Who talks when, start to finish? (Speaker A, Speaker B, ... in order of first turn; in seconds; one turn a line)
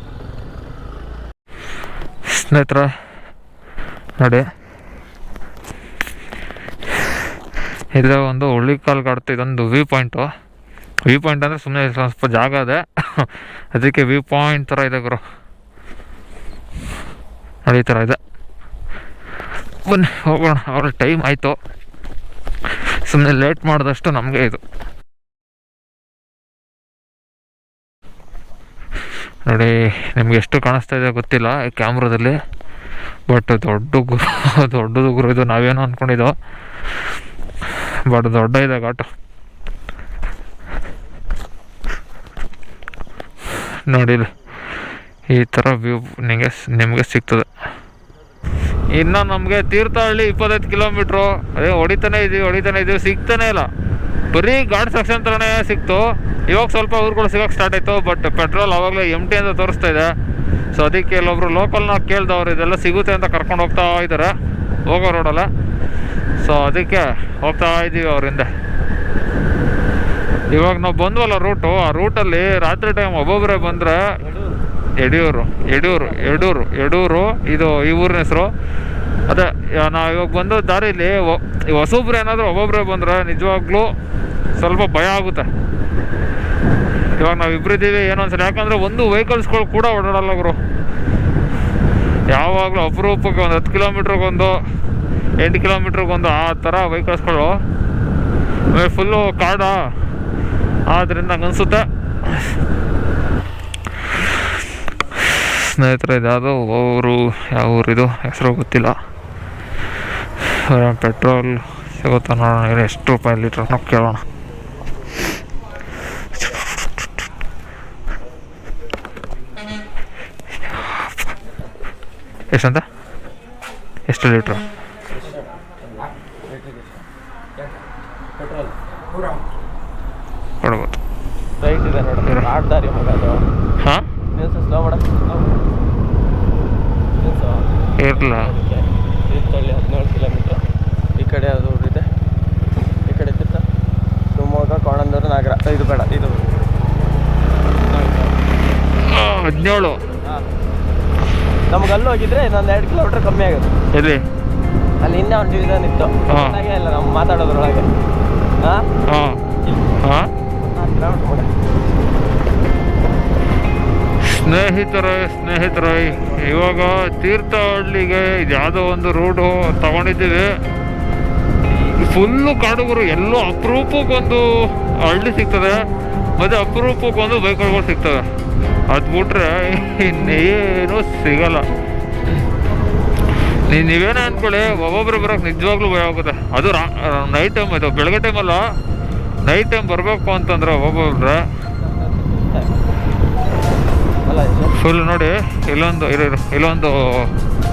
Speaker A: 2.3-2.9
Speaker A: 7.9-10.3
Speaker A: 11.1-15.2
Speaker A: 17.7-18.2
Speaker A: 19.9-21.6
Speaker A: 22.7-24.6
Speaker A: 29.5-32.3
Speaker A: 33.3-36.3
Speaker A: 37.7-39.0
Speaker A: 43.9-44.3
Speaker A: 45.3-47.5
Speaker A: 48.9-53.7
Speaker A: 54.3-60.1
Speaker A: 60.7-64.3
Speaker A: 64.9-65.5
Speaker A: 66.4-68.5
Speaker A: 70.5-74.0
Speaker B: 74.2-74.5
Speaker A: 75.0-78.5
Speaker B: 75.7-76.5
Speaker A: 79.3-83.9
Speaker A: 84.6-85.5
Speaker A: 87.2-90.6
Speaker A: 92.3-94.5
Speaker A: 95.4-97.5
Speaker A: 98.7-99.8
Speaker A: 100.9-102.5
Speaker A: 105.2-108.9
Speaker A: 110.4-114.2
Speaker A: 120.7-121.1
Speaker A: 122.5-122.8
Speaker A: 124.1-124.6
Speaker B: 125.2-125.5
Speaker B: 126.5-127.0
Speaker B: 128.4-128.7
Speaker A: 130.6-131.0
Speaker B: 131.6-133.4
Speaker B: 134.3-135.8
Speaker B: 137.2-140.6
Speaker A: 138.0-138.5
Speaker B: 141.2-142.1
Speaker B: 143.1-143.6
Speaker B: 144.3-146.5
Speaker B: 147.9-148.3
Speaker A: 149.0-150.0
Speaker B: 151.7-153.7
Speaker A: 153.9-154.2
Speaker B: 155.0-157.8
Speaker A: 156.3-156.6
Speaker A: 159.1-159.4
Speaker B: 159.7-160.0
Speaker A: 160.0-160.3
Speaker B: 160.8-161.5
Speaker A: 164.2-170.5
Speaker A: 171.7-175.8
Speaker A: 176.4-178.2
Speaker A: 178.9-181.6
Speaker A: 183.7-188.6
Speaker A: 189.4-191.4
Speaker B: 191.8-192.7
Speaker B: 194.2-194.8
Speaker A: 194.8-197.3